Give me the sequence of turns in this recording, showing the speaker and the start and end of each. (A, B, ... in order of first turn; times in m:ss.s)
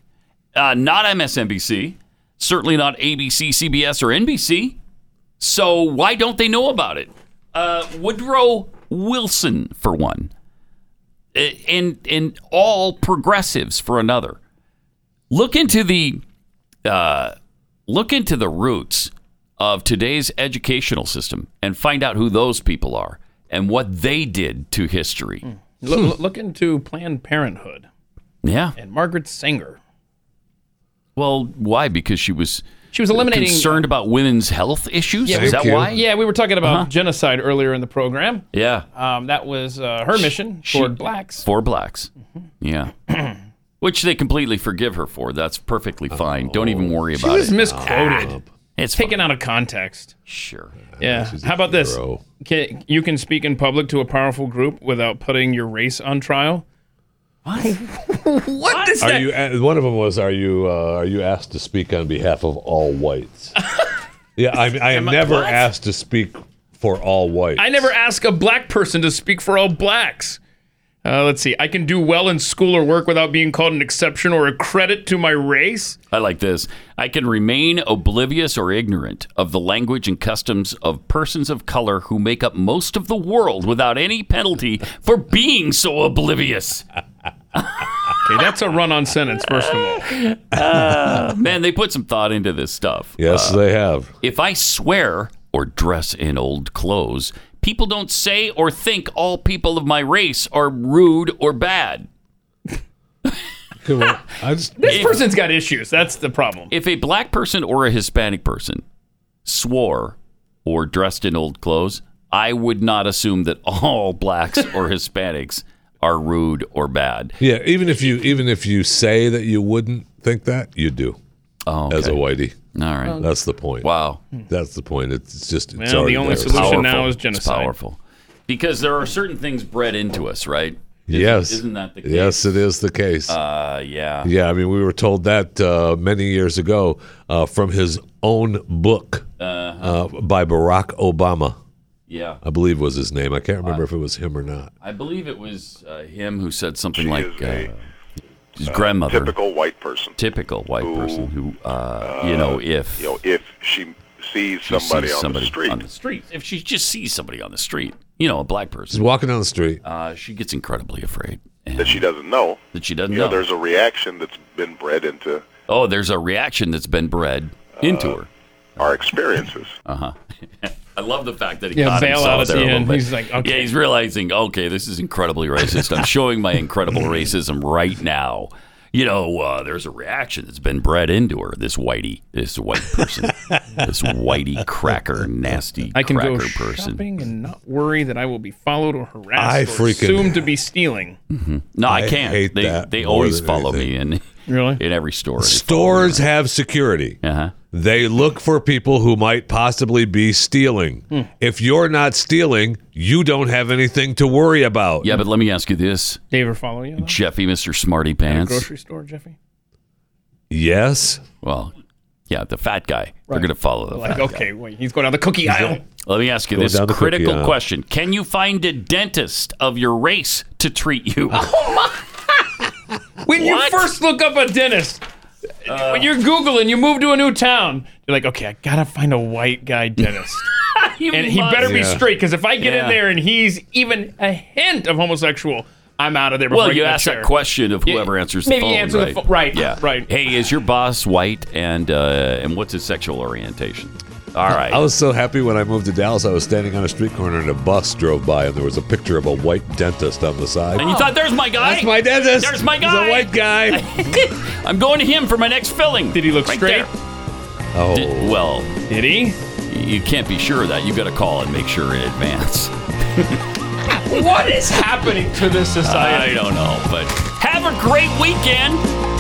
0:00.6-0:04.8 A
0:05.4-0:10.3 A
0:11.3-0:14.4 A
0:15.3-0:16.2 A
0:16.8-0:17.4 A
0:17.9-0:25.4 A
0:25.4-0:27.9 B
0:28.4-0:28.8 A
0:28.8-0:29.8 B
0:31.2-0:36.0 A
0:32.9-0:33.9 B
0:35.3-0:38.4 B
0:35.3-0:36.0 C
0:36.6-0:36.9 A
0:38.5-0:38.8 A
0:39.0-0:41.5 B
0:40.1-0:43.0 A
0:43.8-0:49.2 A
0:46.1-0:48.5 C
0:47.2-0:48.4 B
0:49.0-0:50.1 B
0:50.3-0:50.8 A
0:50.9-0:52.2 C
0:51.0-0:56.6 B
0:57.5-0:57.7 A
0:57.6-0:59.3 B
0:59.0-1:03.6 C
1:04.4-1:07.9 C
1:04.8-1:05.7 B
1:07.6-1:10.4 B
1:11.0-1:16.0 B
1:16.1-1:26.9 A
1:27.6-1:28.2 A
1:28.2-1:30.1 B
1:29.4-1:33.6 A
1:33.2-1:34.1 C
1:34.2-1:42.1 A
1:43.8-1:45.2 C
1:44.8-1:46.7 B
1:44.9-1:45.2 A
1:46.7-1:48.8 A
1:49.4-1:57.4 A
1:57.4-2:01.2 C
2:01.7-2:02.2 A
2:01.9-2:02.6 C
2:02.7-2:03.2 A
2:03.2-2:03.9 C
2:03.8-2:04.2 A
2:04.5-2:07.1 C
2:05.8-2:07.7 B
2:06.3-2:12.6 A
2:11.1-2:13.4 C
2:13.3-2:14.3 A
2:14.2-2:19.3 C
2:19.4-2:20.0 A
2:19.8-2:21.6 C
2:22.1-2:22.4 A
2:22.4-2:24.7 C
2:24.8-2:27.8 A
2:27.0-2:27.7 D
2:28.6-2:29.4 A
2:28.6-2:30.2 D
2:30.2-2:33.2 A
2:30.8-2:31.3 D
2:32.0-2:35.8 D
2:34.6-2:39.1 A
2:38.9-2:39.8 C
2:39.8-2:42.1 A
2:41.8-2:45.5 D
2:42.7-2:43.4 A
2:45.7-2:48.3 A
2:47.8-2:48.2 D
2:48.8-2:49.7 D
2:49.8-3:07.0 A
2:51.8-2:53.7 B
3:03.0-3:04.1 C
3:06.0-3:11.2 B
3:09.4-3:10.5 C
3:11.3-3:16.3 A
3:11.8-3:13.9 C
3:14.5-3:14.8 B
3:15.4-3:17.2 C
3:17.2-3:17.6 A
3:17.7-3:25.2 C
3:25.0-3:26.2 A
3:26.3-3:27.2 B
3:27.0-3:28.7 A
3:28.3-3:29.4 B
3:30.5-3:31.2 C
3:31.4-3:31.7 A
3:32.3-3:34.4 A
3:33.3-3:35.8 B
3:35.4-3:35.8 C
3:36.0-3:41.5 A
3:36.5-3:37.6 C
3:41.3-3:42.4 B
3:43.2-3:45.0 B
3:43.4-3:43.9 A
3:45.7-3:46.1 A
3:45.7-3:50.5 B
3:50.0-3:52.0 A
3:51.1-3:57.3 B
3:51.6-3:52.0 C
3:52.6-3:53.0 A
3:56.5-4:04.8 A
3:57.8-4:00.1 B
4:04.5-4:10.9 C
4:10.8-4:16.9 A
4:10.8-4:11.1 B
4:11.6-4:13.9 C
4:16.1-4:16.9 B
4:17.7-4:18.4 C
4:17.9-4:18.8 A
4:18.9-4:19.4 B
4:19.6-4:23.4 A
4:24.0-4:26.4 B
4:25.8-4:28.8 A